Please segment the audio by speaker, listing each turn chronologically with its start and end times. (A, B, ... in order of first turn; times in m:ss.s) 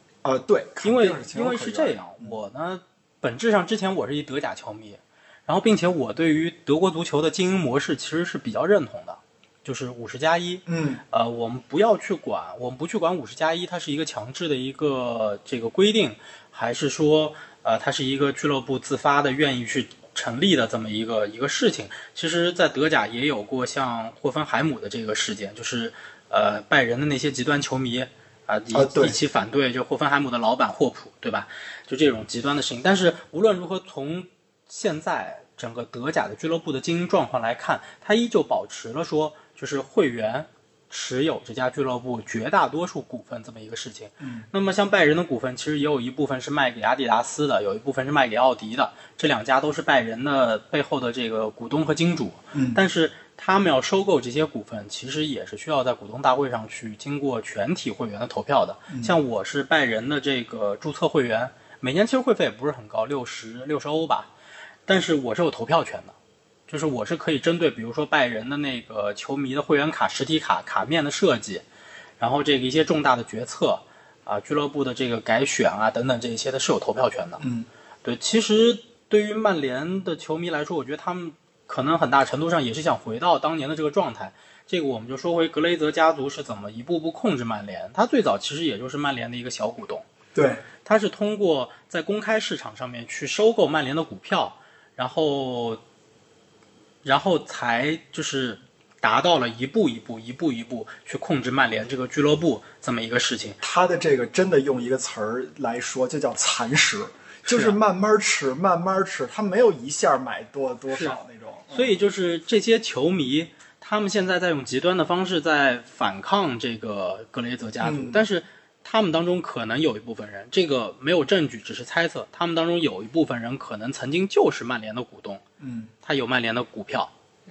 0:00.2-0:02.4 A
0:00.8-1:04.3 B
0:10.7-0:11.0 A
0:28.7-0:29.2 A
0:44.2-0:44.5 A
0:52.5-0:52.8 A
0:58.9-0:59.1 A
1:04.9-1:06.1 B
1:06.7-1:11.6 B
1:12.2-1:17.4 B
1:17.4-1:17.7 A
1:18.0-1:30.0 B
1:30.3-1:30.6 A
1:30.8-1:35.8 B
1:37.0-1:43.6 B
1:43.6-1:52.0 A
1:47.5-1:47.8 B
1:50.9-1:51.2 B
1:51.7-2:05.4 B
1:57.8-1:58.2 A
2:05.6-2:05.9 A
2:06.0-2:07.1 B